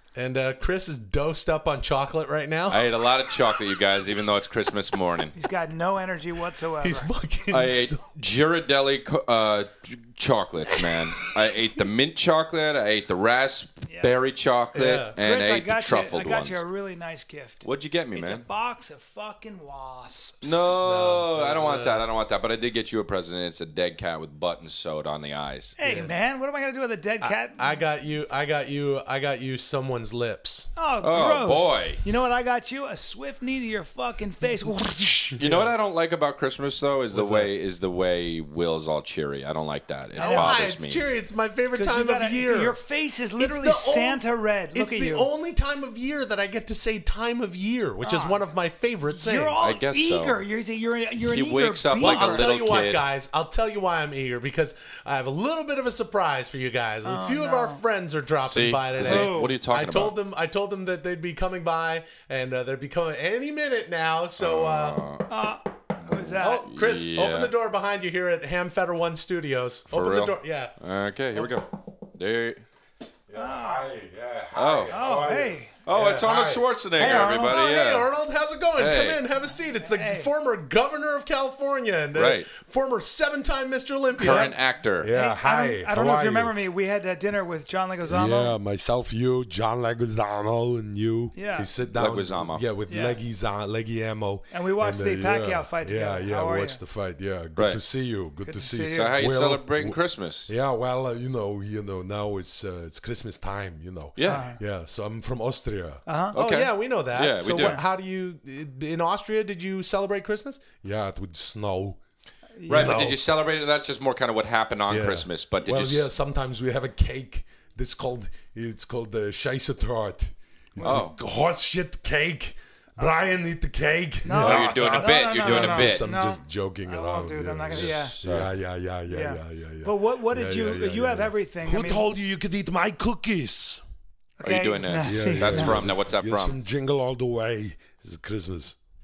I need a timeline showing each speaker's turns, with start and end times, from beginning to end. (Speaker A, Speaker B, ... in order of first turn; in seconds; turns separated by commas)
Speaker A: 0.1-2.9, Speaker B: 2.7-5.3, Speaker C: 5.3-7.1, Speaker D: 6.8-7.9, Speaker B: 7.5-16.6, Speaker C: 13.9-14.1, Speaker A: 14.7-15.1, Speaker C: 15.1-20.5, Speaker B: 17.6-18.4, Speaker B: 20.4-25.7, Speaker A: 20.6-22.0, Speaker C: 25.8-27.9, Speaker A: 25.8-26.1, Speaker A: 27.2-30.7, Speaker C: 30.8-35.4, Speaker B: 31.0-32.0, Speaker B: 35.4-41.0, Speaker A: 37.1-37.4, Speaker A: 40.1-42.8, Speaker C: 40.2-40.6, Speaker C: 41.7-45.3, Speaker A: 43.4-44.2, Speaker A: 44.7-49.6, Speaker C: 48.0-48.4, Speaker C: 49.1-52.5, Speaker B: 49.6-50.4, Speaker B: 51.3-53.0, Speaker A: 51.9-65.0, Speaker C: 57.0-57.8, Speaker B: 58.4-60.1, Speaker C: 59.0-59.5, Speaker B: 64.4-65.2, Speaker C: 65.3-66.7, Speaker A: 66.4-70.7, Speaker B: 66.6-67.5, Speaker B: 69.9-72.6, Speaker D: 73.3-75.6, Speaker C: 73.3-73.9, Speaker B: 74.5-74.9, Speaker C: 74.9-75.7, Speaker B: 75.8-78.1, Speaker A: 75.9-84.5, Speaker C: 77.0-77.5, Speaker B: 78.8-79.2, Speaker C: 79.5-80.3, Speaker B: 82.1-82.5, Speaker B: 84.1-85.1, Speaker C: 84.2-84.5, Speaker D: 85.0-86.5, Speaker C: 85.1-88.6, Speaker D: 88.0-106.0, Speaker C: 91.3-91.7, Speaker B: 91.9-92.6, Speaker C: 92.9-93.2, Speaker C: 94.5-96.8, Speaker C: 98.4-99.2, Speaker B: 98.8-100.5, Speaker B: 104.2-104.4, Speaker C: 104.2-104.6, Speaker C: 106.0-106.4, Speaker B: 106.3-107.8, Speaker A: 106.3-110.8, Speaker C: 107.6-107.8, Speaker D: 110.8-112.0, Speaker C: 112.6-113.1, Speaker B: 112.7-116.1, Speaker D: 112.7-113.2, Speaker D: 114.9-133.8, Speaker C: 120.8-121.1, Speaker B: 120.8-121.2, Speaker C: 124.2-128.2, Speaker B: 124.4-126.1, Speaker B: 127.7-128.5, Speaker C: 129.1-132.1, Speaker C: 134.4-135.8, Speaker B: 134.4-136.6, Speaker D: 135.0-138.8